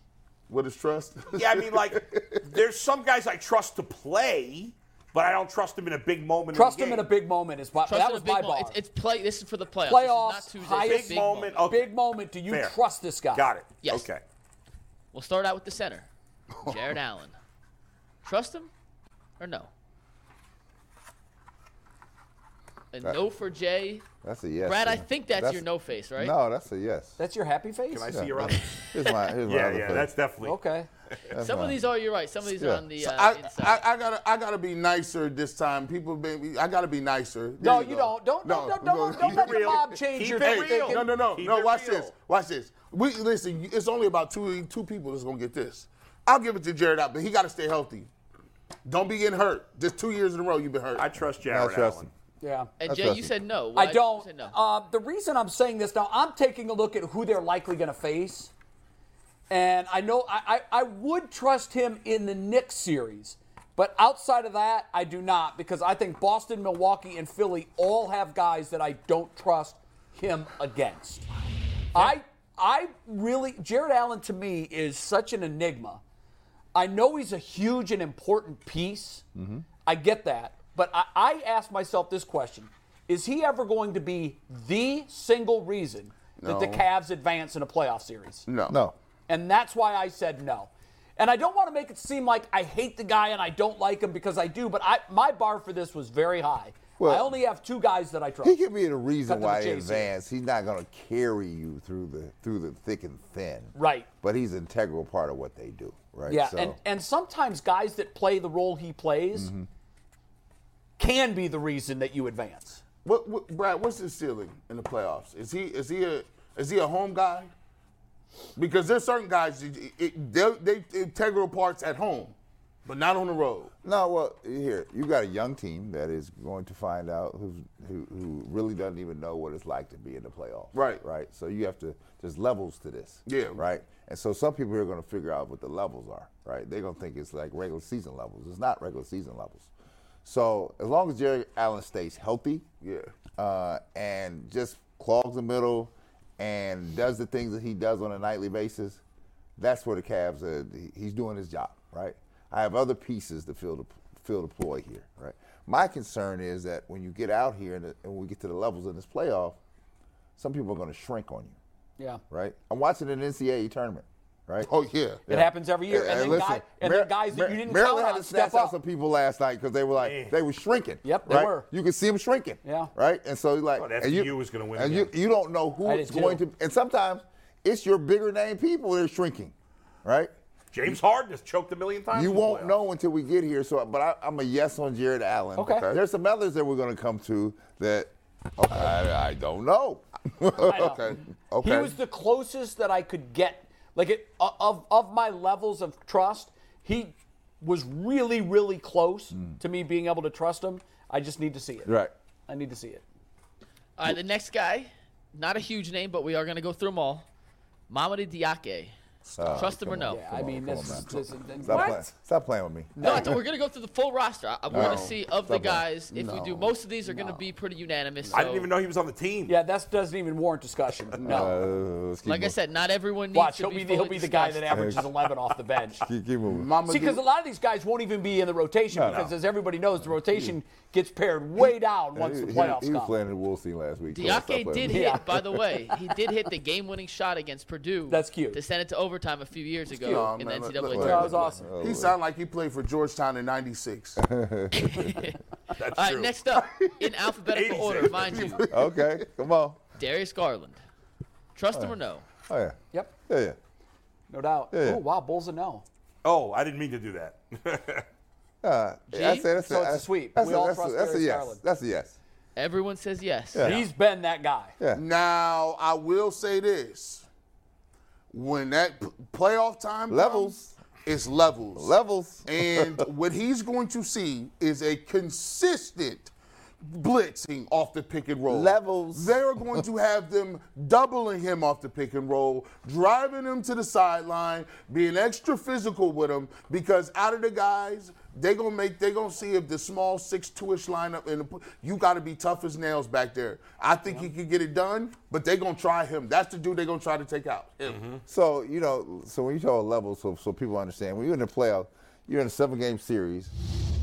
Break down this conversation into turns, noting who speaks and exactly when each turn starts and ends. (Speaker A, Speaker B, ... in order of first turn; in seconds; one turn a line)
Speaker A: 0.5-2.4
Speaker B: 1.3-7.1
Speaker C: 6.5-8.8
Speaker D: 7.9-11.7
Speaker C: 9.9-13.5
Speaker B: 10.8-11.9
Speaker B: 12.5-12.8
Speaker B: 13.3-14.2
Speaker D: 13.8-14.1
Speaker D: 15.1-16.1
Speaker A: 16.6-16.9
Speaker D: 16.6-17.4
Speaker D: 18.2-18.7
Speaker D: 19.4-19.7
Speaker D: 22.9-24.1
Speaker E: 24.2-25.6
Speaker D: 24.6-26.4
Speaker E: 26.2-27.2
Speaker C: 27.2-28.1
Speaker B: 27.9-30.6
Speaker E: 28.1-30.1
Speaker C: 30.4-30.9
Speaker E: 31.3-31.8
Speaker D: 31.4-33.8
Speaker E: 32.5-32.9
Speaker A: 33.0-48.1
Speaker C: 37.6-41.1
Speaker B: 39.2-42.1
Speaker A: 48.9-51.0
Speaker B: 51.0-52.1
Speaker E: 51.5-52.1
Speaker C: 52.4-52.7
Speaker D: 52.8-54.5
Speaker E: 52.9-53.4
Speaker C: 53.8-58.5
Speaker C: 59.5-71.3
Speaker C: 71.9-76.0
Speaker C: 76.7-79.2
Speaker E: 79.3-79.7
Speaker C: 79.9-88.5
Speaker A: 86.4-86.8
Speaker A: 88.5-88.8
Speaker E: 88.7-89.0
Speaker C: 89.3-98.6
Speaker E: 97.0-97.4
Speaker E: 98.4-106.8
Speaker C: 99.2-100.1
Speaker C: 103.8-104.1
Speaker C: 106.3-109.5
Speaker E: 109.3-109.7
Speaker C: 111.0-112.8
Speaker A: 113.0-117.5
Speaker A: 118.6-122.3
Speaker A: 122.8-123.7
Speaker E: 123.8-139.7
Speaker A: 130.7-131.0
Speaker A: 133.3-133.6
Speaker E: 140.2-142.7
Speaker A: 142.8-143.1
Speaker E: 143.4-149.0
Speaker E: 149.6-159.6
Speaker E: 160.4-161.6
Speaker E: 162.3-164.7
Speaker A: 164.6-165.2
Speaker E: 165.3-180.3
Speaker C: 165.3-168.8
Speaker A: 166.1-166.4
Speaker B: 170.0-170.4
Speaker C: 171.0-171.7
Speaker C: 172.6-172.9
Speaker B: 173.8-175.1
Speaker C: 175.8-176.4
Speaker B: 180.7-182.8
Speaker E: 182.1-191.9
Speaker C: 185.6-185.9
Speaker A: 185.7-186.0
Speaker A: 190.6-191.9
Speaker C: 190.7-191.0
Speaker C: 191.6-201.9
Speaker E: 199.3-199.6
Speaker E: 201.9-202.1
Speaker C: 202.5-203.0
Speaker D: 204.0-207.3
Speaker D: 207.9-208.9
Speaker A: 209.2-209.8
Speaker E: 209.4-213.4
Speaker D: 209.5-210.2
Speaker C: 210.1-212.1
Speaker A: 210.9-211.9
Speaker C: 213.0-213.4
Speaker D: 213.0-218.7
Speaker A: 214.7-215.2
Speaker E: 214.7-215.8
Speaker A: 216.1-216.7
Speaker C: 217.1-217.4
Speaker B: 218.3-219.6
Speaker C: 219.5-221.5
Speaker A: 221.2-221.6
Speaker E: 221.2-222.6
Speaker D: 222.2-224.8
Speaker C: 223.3-226.0
Speaker E: 224.7-225.1
Speaker E: 226.0-226.7
Speaker A: 226.5-227.2
Speaker C: 226.9-233.2
Speaker E: 228.9-229.3
Speaker E: 230.0-230.5
Speaker E: 231.6-235.0
Speaker D: 234.1-241.5
Speaker C: 234.9-235.3
Speaker C: 238.1-238.6
Speaker C: 240.0-240.3
Speaker A: 240.0-244.2
Speaker E: 240.9-242.2
Speaker C: 240.9-241.6
Speaker E: 244.2-245.1
Speaker D: 244.7-245.4
Speaker B: 245.8-246.4
Speaker D: 245.9-248.7
Speaker A: 246.6-247.2
Speaker B: 247.5-248.6
Speaker A: 248.1-249.2
Speaker E: 248.7-249.8
Speaker D: 250.0-250.8
Speaker D: 251.6-252.3
Speaker E: 252.5-253.6
Speaker C: 254.3-255.8
Speaker E: 254.7-255.0
Speaker B: 256.2-258.1
Speaker E: 258.6-262.2
Speaker D: 259.1-259.5
Speaker C: 259.6-261.6
Speaker D: 262.6-263.7
Speaker C: 263.6-264.8
Speaker A: 264.9-267.3
Speaker A: 268.3-270.5
Speaker E: 270.1-270.8
Speaker A: 271.1-271.9
Speaker E: 271.8-273.0
Speaker A: 272.5-276.3
Speaker A: 276.9-298.0
Speaker E: 278.5-279.8
Speaker B: 297.8-298.2
Speaker E: 298.3-303.5